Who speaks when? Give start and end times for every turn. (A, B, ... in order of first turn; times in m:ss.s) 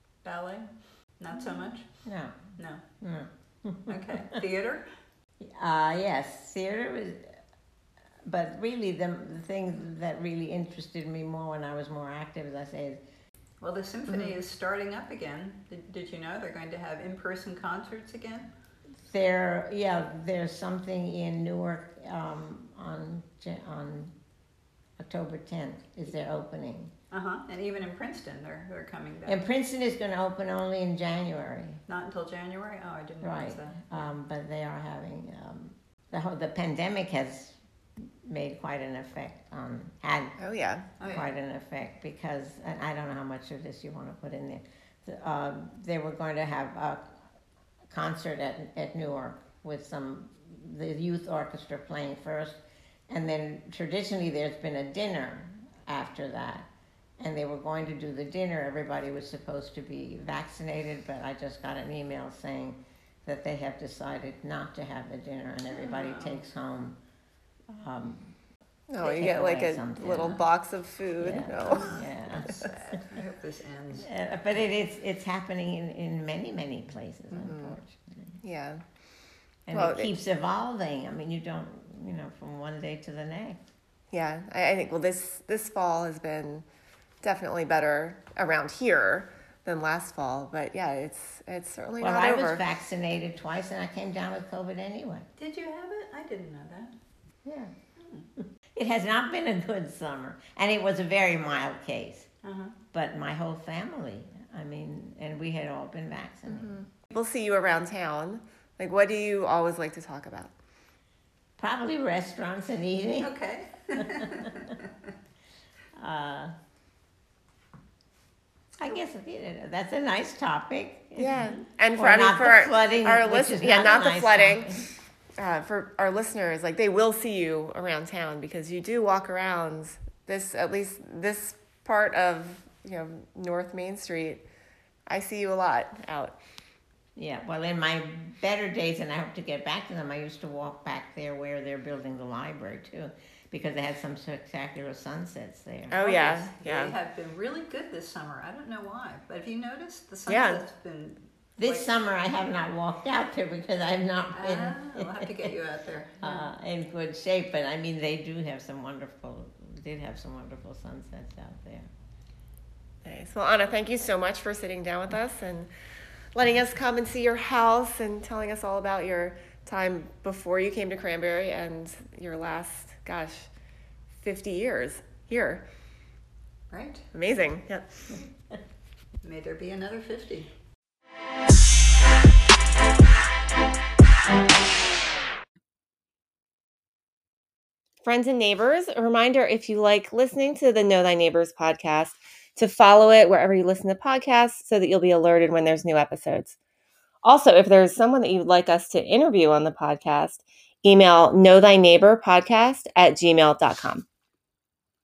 0:00.2-0:01.9 A
0:02.0-0:02.4 B
0:02.6-0:02.8 A
0:03.0-0:04.4 B
0:03.9-0:04.8 A
0:05.4-0:07.4 B
0:08.2-0:13.0 B
0:13.6-0:18.5 A
0:19.0-0:24.1 B
0:25.0-0:26.9 B
0:27.1-0:29.4 A
0:29.3-0:31.8 B
0:31.9-0:34.1 A
0:33.2-0:40.4 B
0:40.4-0:40.9 C
0:41.0-0:41.3 A
0:41.0-0:47.1 B
0:47.9-0:56.7 B
0:57.2-1:07.0 B
1:05.7-1:06.4 A
1:07.7-1:08.4 B
1:08.9-1:12.0 C
1:09.0-1:10.4 B
1:11.2-1:12.8 B
1:11.6-1:14.1 A
1:14.0-1:18.4 B
1:17.4-1:17.8 C
1:18.4-1:18.8 C
1:19.7-1:23.6 B
1:19.7-1:20.1 C
1:24.1-1:26.6 C
1:27.2-1:32.6 C
1:32.0-1:35.3 B
1:35.4-1:36.9 A
1:37.4-1:37.7 B
1:38.4-1:42.3 B
1:42.4-1:42.8 A
1:42.9-1:46.8 B
1:46.5-1:50.5 C
1:51.6-1:53.3 B
1:53.2-1:54.9 A
1:54.0-1:54.7 B
1:56.0-1:56.5 B
1:58.8-2:04.9 B
2:01.2-2:04.8 C
2:05.4-2:14.4 C
2:15.1-2:16.4 C
2:17.2-2:26.0 B
2:25.9-2:26.9 C
2:26.0-2:31.9 A
2:30.3-2:30.6 C
2:31.6-2:35.3 B
2:34.3-2:36.5 A
2:36.2-2:41.9 B
2:43.0-2:45.7 C
2:46.3-2:53.5 C
2:54.2-2:55.6 C
2:56.7-2:57.1 A
2:57.1-2:58.2 C
2:59.2-3:00.5 A
3:08.0-3:16.6 C
3:17.2-3:24.0 C